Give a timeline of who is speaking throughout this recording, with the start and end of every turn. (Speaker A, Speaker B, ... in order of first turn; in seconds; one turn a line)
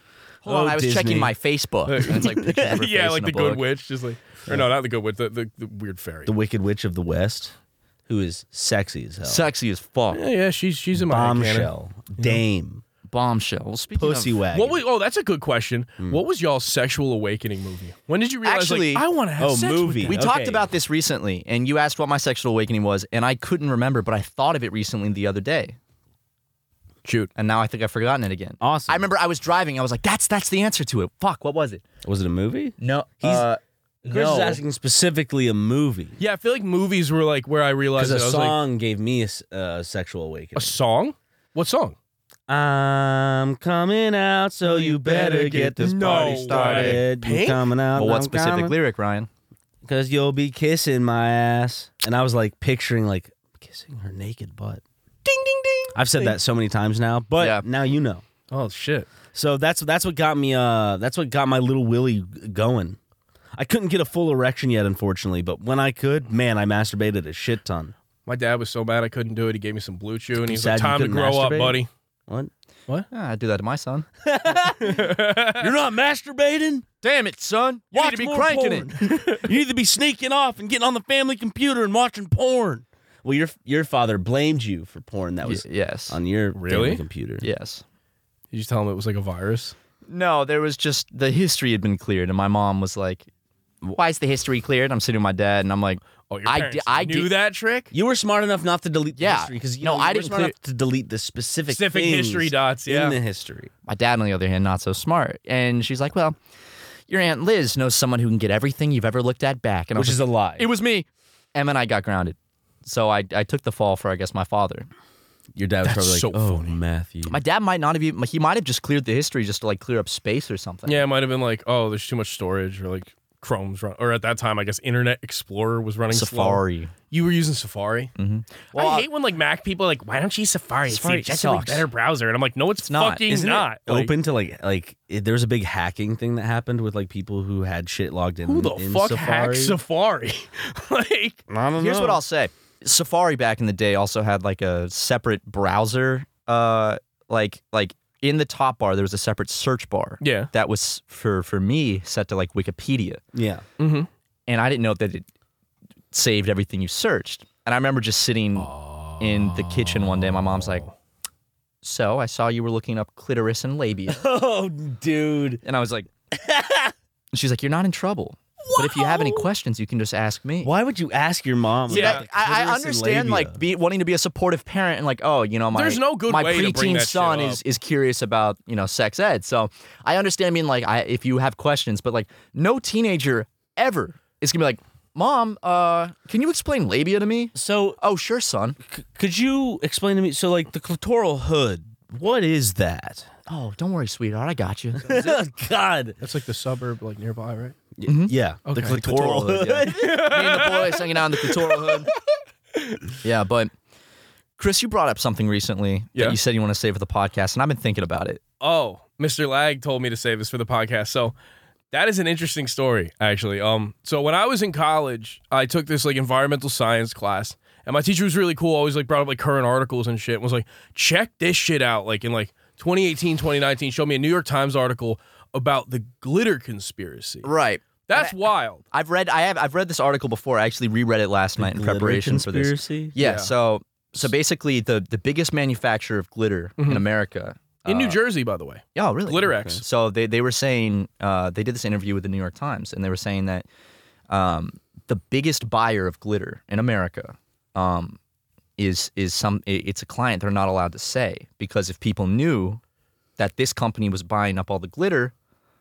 Speaker A: 0.4-3.6
Speaker B: 0.5-1.3
Speaker C: 1.9-6.3
Speaker B: 2.2-2.7
Speaker B: 6.3-7.5
Speaker B: 8.1-9.5
Speaker A: 9.2-10.2
Speaker C: 10.1-12.4
Speaker B: 11.0-12.8
Speaker A: 13.1-14.4
Speaker B: 13.9-14.8
Speaker C: 14.5-20.2
Speaker A: 18.4-19.1
Speaker B: 19.4-20.7
Speaker A: 20.1-25.8
Speaker C: 27.1-27.3
Speaker A: 27.4-31.8
Speaker B: 28.6-29.0
Speaker B: 32.0-33.5
Speaker A: 32.8-34.6
Speaker B: 34.0-36.2
Speaker C: 36.2-38.6
Speaker B: 38.0-40.8
Speaker C: 40.5-42.0
Speaker B: 42.5-48.8
Speaker C: 44.6-47.6
Speaker A: 45.8-47.0
Speaker A: 47.9-49.3
Speaker B: 49.8-54.8
Speaker C: 55.3-56.4
Speaker B: 56.0-58.2
Speaker A: 57.4-57.6
Speaker C: 58.5-59.1
Speaker B: 59.3-63.0
Speaker B: 63.6-67.9
Speaker C: 68.3-71.9
Speaker B: 70.3-72.5
Speaker A: 73.1-74.1
Speaker B: 74.2-76.9
Speaker C: 74.8-75.7
Speaker A: 77.0-79.4
Speaker B: 77.9-87.5
Speaker A: 85.4-86.2
Speaker C: 86.6-87.0
Speaker A: 87.4-87.8
Speaker C: 88.5-89.8
Speaker A: 90.1-93.3
Speaker A: 93.9-97.3
Speaker C: 96.3-97.9
Speaker B: 97.9-103.7
Speaker A: 99.1-100.5
Speaker C: 101.7-103.2
Speaker A: 103.9-106.4
Speaker A: 107.1-114.9
Speaker B: 110.0-110.7
Speaker B: 115.5-117.4
Speaker C: 115.8-116.8
Speaker A: 117.3-121.1
Speaker C: 120.9-128.1
Speaker A: 126.1-126.9
Speaker A: 128.2-129.1
Speaker C: 128.7-134.1
Speaker A: 130.9-131.9
Speaker A: 132.8-133.2
Speaker B: 133.3-139.8
Speaker C: 138.4-141.4
Speaker B: 141.5-142.2
Speaker A: 141.8-153.2
Speaker C: 150.2-150.5
Speaker B: 153.3-153.6
Speaker C: 153.8-154.1
Speaker A: 154.5-155.3
Speaker A: 156.1-160.8
Speaker C: 158.6-160.9
Speaker A: 161.8-164.2
Speaker B: 164.1-165.6
Speaker A: 165.6-166.1
Speaker B: 166.3-166.9
Speaker A: 167.3-170.7
Speaker C: 168.7-169.4
Speaker B: 170.6-173.6
Speaker C: 171.9-172.2
Speaker A: 171.9-188.8
Speaker C: 175.7-177.6
Speaker B: 187.6-188.0
Speaker B: 188.9-193.3
Speaker A: 193.5-195.4
Speaker B: 195.0-196.2
Speaker C: 196.2-197.8
Speaker B: 198.0-200.6
Speaker A: 198.1-198.3
Speaker C: 198.7-199.0
Speaker A: 198.9-202.1
Speaker C: 199.9-201.0
Speaker C: 201.7-202.0
Speaker A: 203.2-203.7
Speaker A: 204.6-208.4
Speaker C: 208.6-211.4
Speaker C: 211.9-227.5
Speaker A: 227.4-228.4
Speaker C: 228.1-228.8
Speaker A: 228.9-238.2
Speaker B: 231.6-233.1
Speaker C: 233.2-233.5
Speaker C: 236.8-237.1
Speaker C: 237.9-239.8
Speaker A: 238.9-243.7
Speaker B: 239.6-239.8
Speaker A: 244.3-248.2
Speaker A: 248.8-252.8
Speaker A: 253.4-255.3